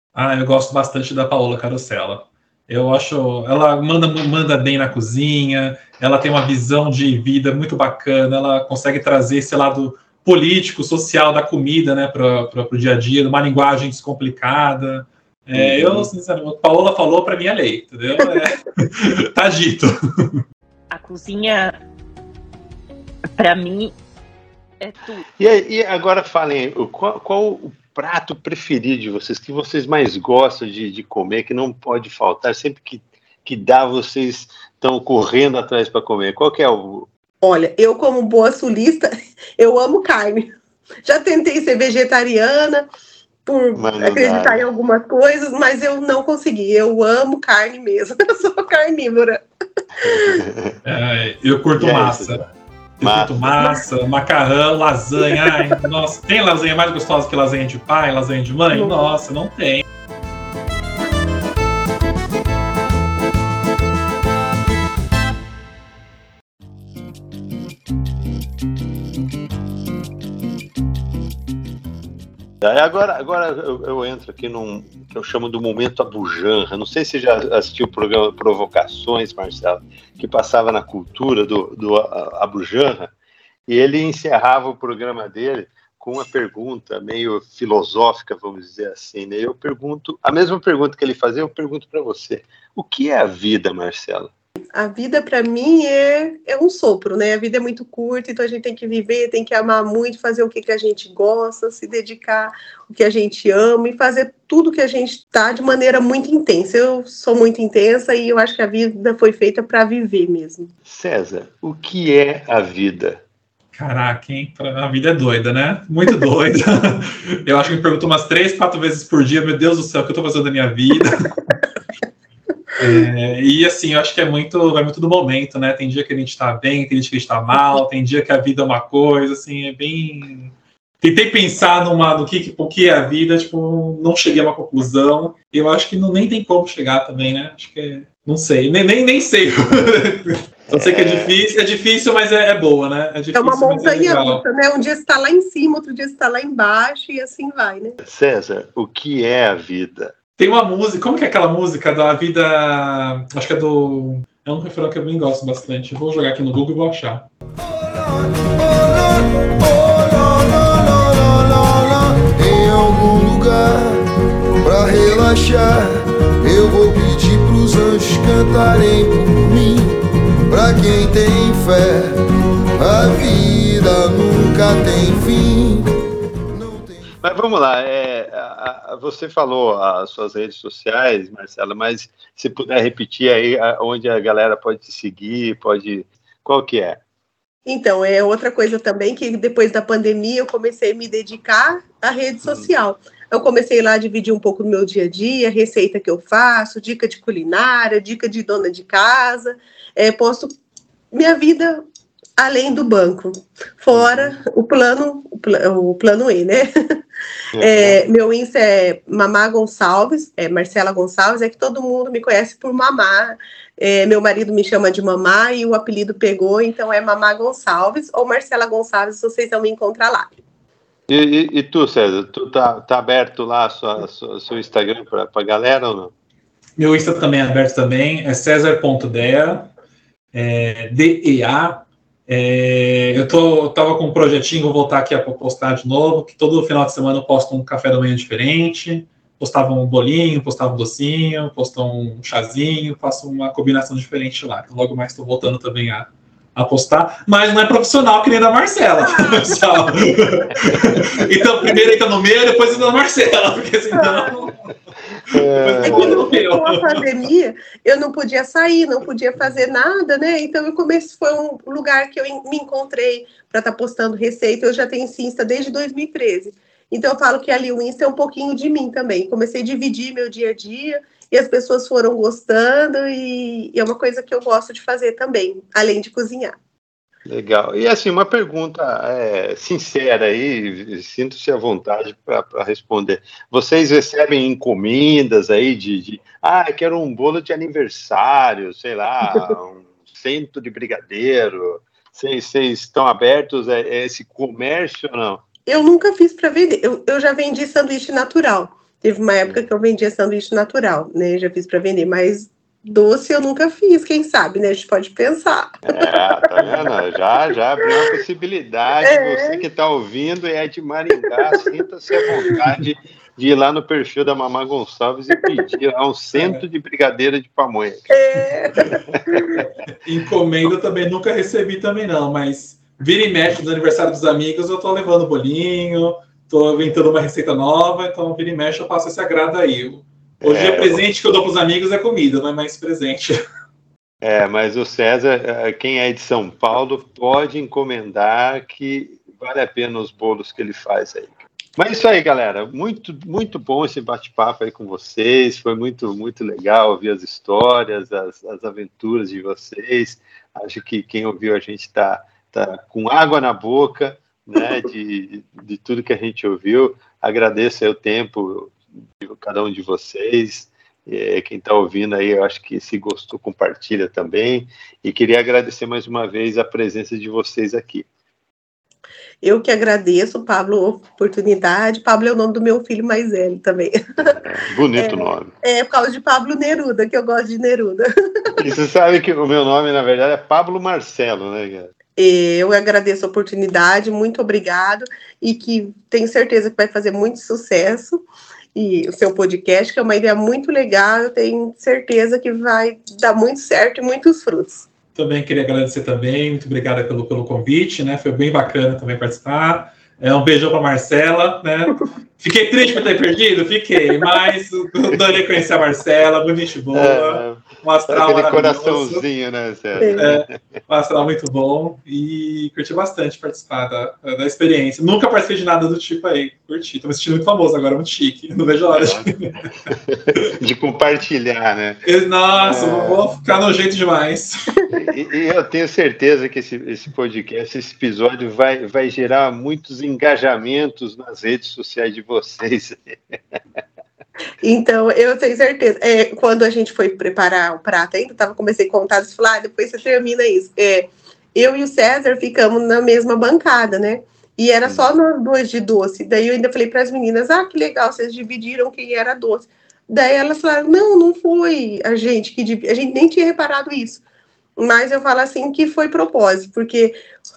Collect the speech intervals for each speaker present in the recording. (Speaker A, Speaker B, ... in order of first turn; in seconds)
Speaker A: 0.1-20.4, 50.9-52.4, 53.0-59.9, 113.7-121.3, 122.8-144.4, 150.4-157.3, 226.8-229.7, 230.3-254.8, 255.3-257.1, 316.4-316.6, 319.6-333.4, 395.1-409.2, 410.1-419.6, 422.1-424.6
Speaker B: 15.6-16.1, 25.4-37.1, 43.8-44.6, 50.0-50.8, 51.8-52.5, 53.0-53.6, 72.6-83.1, 83.7-94.3, 110.9-113.2, 140.7-141.3, 148.0-150.1, 177.2-187.0, 203.9-204.4, 207.6-208.0, 221.1-226.1, 255.3-256.3, 277.3-295.4, 305.9-318.2, 330.4-331.0, 334.2-368.1, 374.2-375.5, 378.6-381.9, 406.9-410.5, 418.9-419.3, 419.9-422.0, 422.6-423.2, 424.9-433.4
Speaker C: 20.9-21.8, 23.4-24.0, 24.8-25.2
Speaker D: 37.4-40.5, 41.0-42.9, 43.5-49.4, 50.0-50.3, 94.7-110.7, 143.3-148.0, 187.7-200.5, 201.1-201.8, 202.4-206.7, 207.6-220.3, 249.0-249.9, 253.9-254.3, 255.8-276.6, 295.7-306.2, 309.0-309.6, 312.2-312.6, 318.1-319.6, 369.4-374.0, 375.0-378.5, 382.2-388.2, 388.8-394.9, 410.0-410.3, 434.6-454.2, 454.8-457.2
Speaker E: 157.6-164.0, 164.6-169.9, 170.5-172.2, 172.8-175.9, 176.5-177.1